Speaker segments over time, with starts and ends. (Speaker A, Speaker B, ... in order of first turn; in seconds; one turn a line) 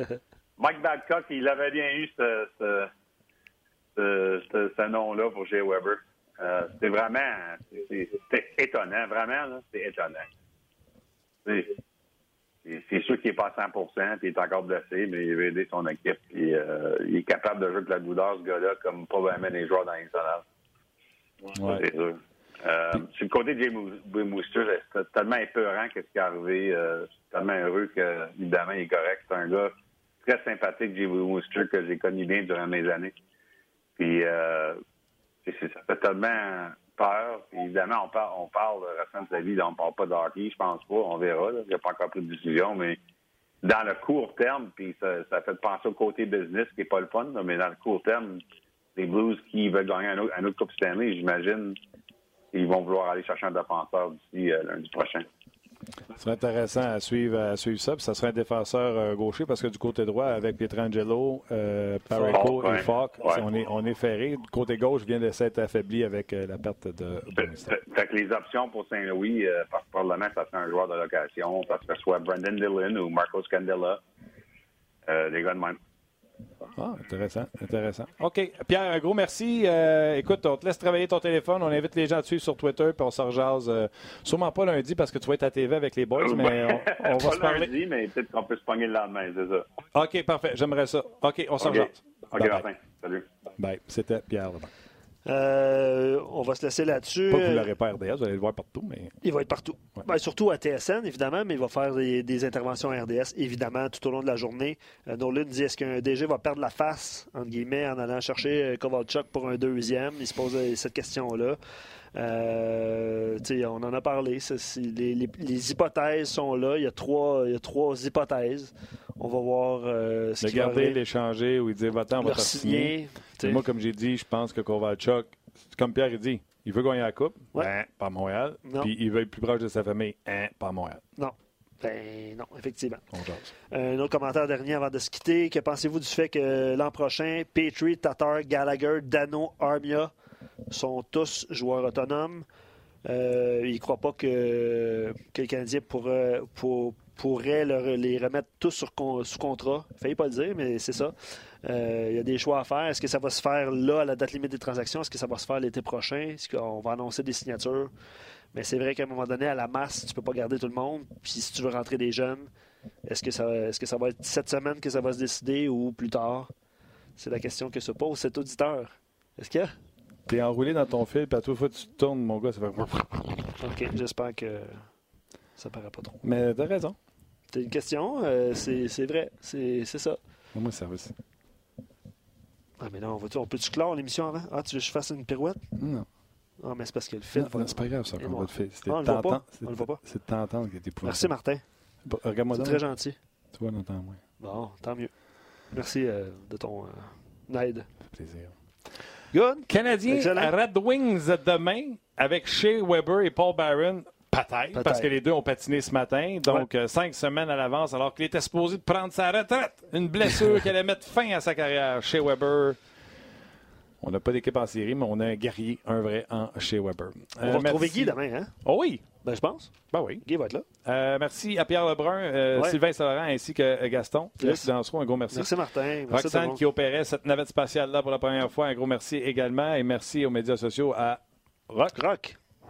Speaker A: 0.6-2.9
Speaker A: 4.0-10.3
Speaker A: 11.4-11.8
Speaker A: 12.7-20.4
Speaker A: 21.5-33.1
Speaker B: 21.6-21.8
Speaker A: 34.0-34.8
Speaker A: 35.5-43.0
Speaker A: 43.6-48.4
Speaker A: 49.0-51.8
Speaker A: 52.5-55.3
Speaker B: 56.2-67.7
Speaker A: 62.2-63.4
Speaker A: 67.4-74.0
Speaker A: 75.1-75.8
Speaker B: 76.8-87.7
Speaker A: 86.2-89.7
Speaker B: 89.9-92.7
Speaker A: 91.6-93.3
Speaker B: 93.6-94.7
Speaker C: 95.2-97.7
Speaker B: 97.3-99.2
Speaker C: 99.2-111.6
Speaker C: 112.1-121.0
Speaker B: 120.4-131.0
Speaker C: 122.2-123.6
Speaker C: 128.7-128.9
Speaker C: 131.2-133.1
Speaker B: 133.1-133.5
Speaker C: 133.7-140.1
Speaker C: 140.7-142.5
Speaker C: 143.1-157.9
Speaker C: 158.5-162.5
Speaker C: 163.1-166.5
Speaker C: 167.2-169.7
Speaker B: 170.3-173.6
Speaker C: 173.6-174.9
Speaker C: 175.6-176.2
Speaker B: 176.2-177.0
Speaker C: 177.5-180.2
Speaker B: 180.5-181.2
Speaker C: 182.8-185.7
Speaker B: 185.8-186.1
Speaker C: 186.6-190.0
Speaker B: 187.3-191.3
Speaker C: 191.0-191.6
Speaker B: 192.1-192.8
Speaker C: 192.6-193.2
Speaker B: 193.5-194.2
Speaker C: 194.4-195.1
Speaker C: 195.7-197.9
Speaker B: 198.1-198.5
Speaker C: 199.3-200.5
Speaker B: 199.7-212.8
Speaker C: 204.7-205.1
Speaker B: 214.0-219.0
Speaker C: 217.4-218.6
Speaker C: 219.2-220.7
Speaker B: 219.9-220.2
Speaker B: 220.8-225.5
Speaker C: 224.4-224.7
Speaker C: 225.3-226.6
Speaker B: 226.1-231.9
Speaker C: 231.9-232.4